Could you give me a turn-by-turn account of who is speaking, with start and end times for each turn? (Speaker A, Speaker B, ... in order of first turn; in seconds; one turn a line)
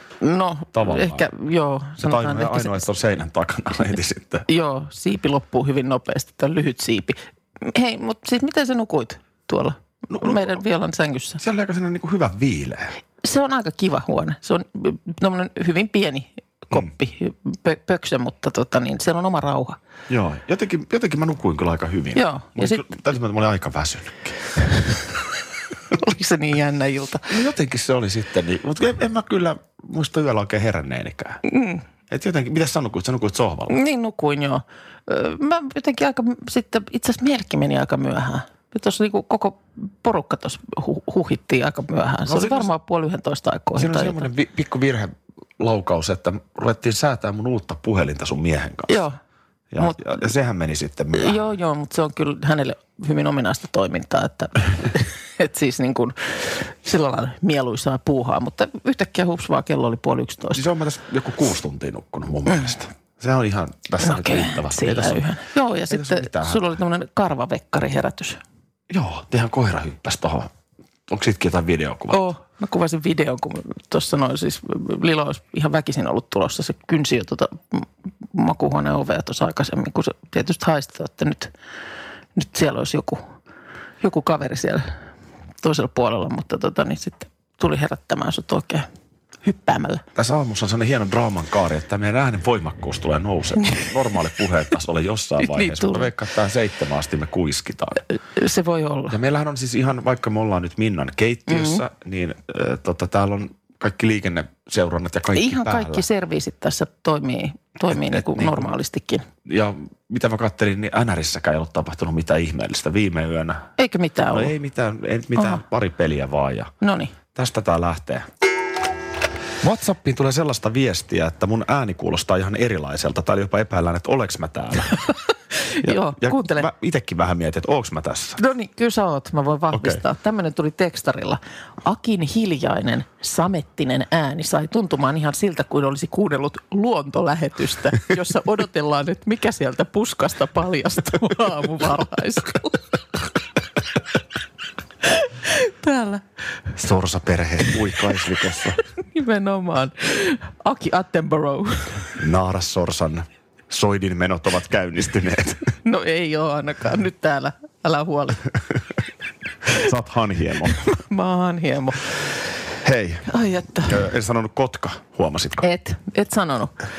Speaker A: 0.2-2.9
Speaker B: 0.7-1.3
Speaker B: 2.0-4.4
Speaker A: 4.5-11.4
Speaker B: 10.1-10.6
Speaker B: 11.4-12.9
Speaker A: 13.2-19.8
Speaker B: 20.1-24.4
Speaker A: 22.1-22.9
Speaker A: 25.9-27.3
Speaker B: 27.3-31.4
Speaker A: 31.4-31.8
Speaker B: 32.1-33.7
Speaker A: 33.7-44.3
Speaker B: 42.2-42.7
Speaker B: 43.8-49.0
Speaker A: 48.9-49.2
Speaker B: 49.7-51.4
Speaker A: 49.8-50.2
Speaker A: 51.1-60.6
Speaker B: 60.5-65.2
Speaker A: 64.0-68.4
Speaker B: 65.9-66.6
Speaker B: 68.9-70.5
Speaker B: 71.1-72.2
Speaker A: 72.1-81.5
Speaker A: 82.3-83.2
Speaker A: 84.0-84.9
Speaker A: 85.6-88.9
Speaker A: 89.4-90.0
Speaker B: 90.2-98.0
Speaker A: 95.4-96.1
Speaker A: 98.1-99.2
Speaker B: 99.1-106.0
Speaker A: 101.5-101.8
Speaker A: 105.3-109.3
Speaker B: 107.9-108.7
Speaker B: 109.4-113.7
Speaker A: 113.8-114.5
Speaker B: 114.3-116.7
Speaker A: 115.3-115.6
Speaker A: 116.8-117.2
Speaker B: 117.3-118.3
Speaker B: 119.6-125.0
Speaker A: 125.5-126.7
Speaker B: 125.8-128.4
Speaker A: 128.4-142.9
Speaker B: 129.7-130.0
Speaker A: 145.0-146.2
Speaker B: 146.7-148.8
Speaker A: 149.0-152.1
Speaker B: 152.2-155.6
Speaker A: 155.8-158.4
Speaker B: 159.7-160.8
Speaker A: 160.7-162.2
Speaker B: 162.8-163.3
Speaker A: 163.3-164.0
Speaker B: 163.8-165.7
Speaker A: 165.6-166.7